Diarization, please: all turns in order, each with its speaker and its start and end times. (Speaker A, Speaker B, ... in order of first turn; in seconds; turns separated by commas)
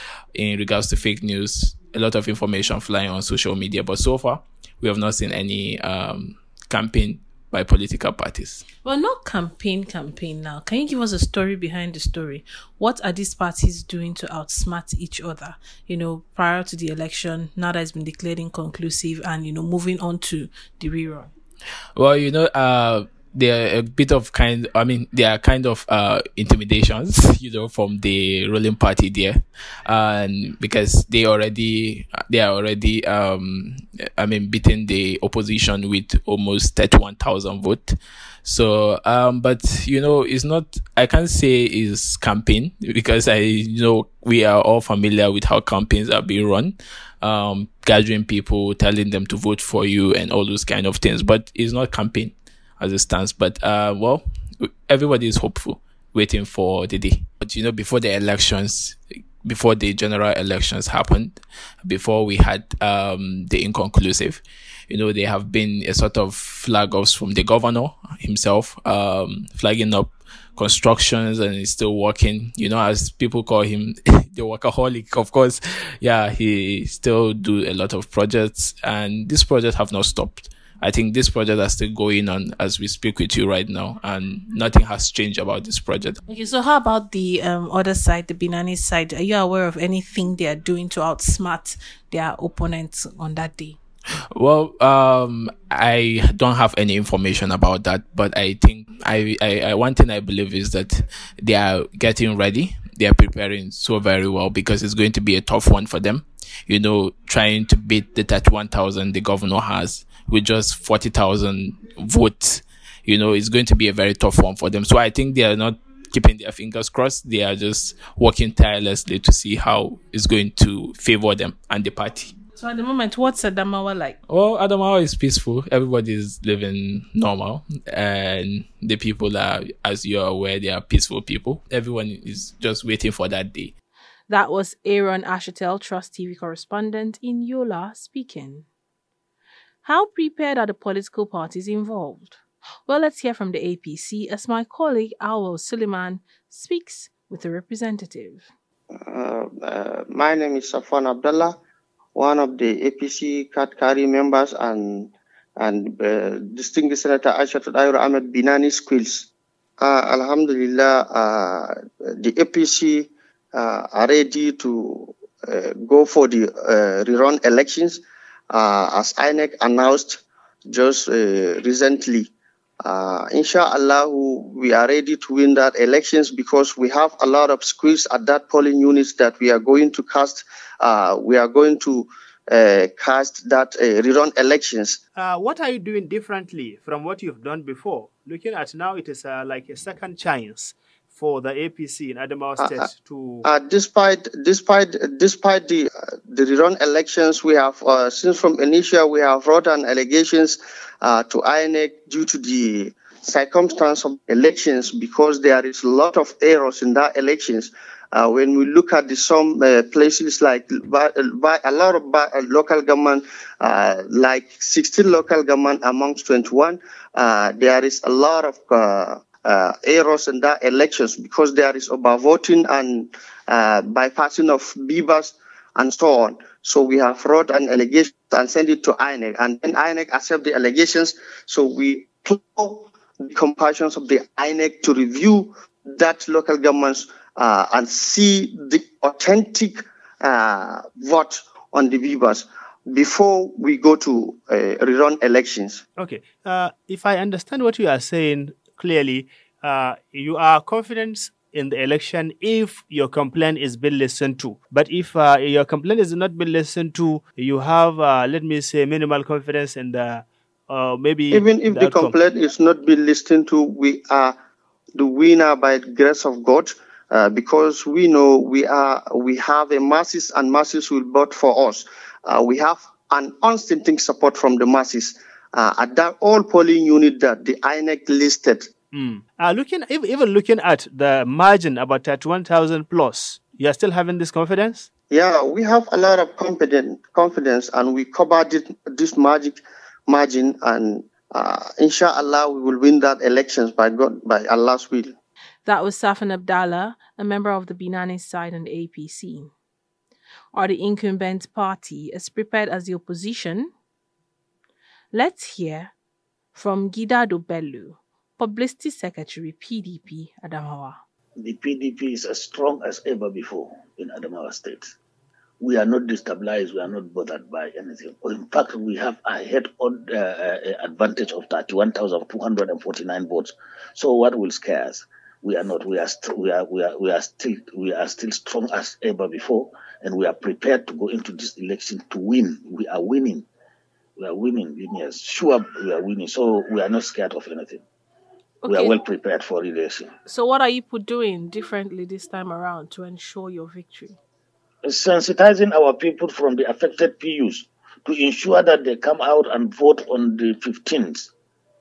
Speaker A: 0.3-8.6, Speaker B: 8.8-21.3, Speaker A: 21.9-86.2, Speaker B: 86.3-93.8, Speaker A: 94.3-122.3, Speaker B: 122.5-124.2, Speaker A: 124.3-133.7, Speaker B: 134.3-138.7, Speaker B: 139.8-148.5, Speaker C: 148.9-151.5, Speaker C: 152.1-172.3, Speaker C: 172.8-185.0, Speaker D: 185.2-193.4, Speaker C: 192.6-192.9, Speaker C: 193.4-245.8, Speaker D: 246.0-262.1, Speaker C: 261.3-264.3, Speaker C: 264.9-278.7, Speaker D: 278.9-284.9, Speaker C: 285.1-295.1, Speaker B: 295.6-299.5, Speaker B: 300.5-303.7, Speaker B: 305.1-305.9, Speaker B: 306.5-311.0, Speaker E: 311.4-314.9, Speaker E: 315.6-333.4, Speaker E: 334.2-337.8, Speaker B: 338.6-338.9, Speaker E: 338.9-340.1, Speaker B: 340.2-344.2, Speaker E: 344.8-351.3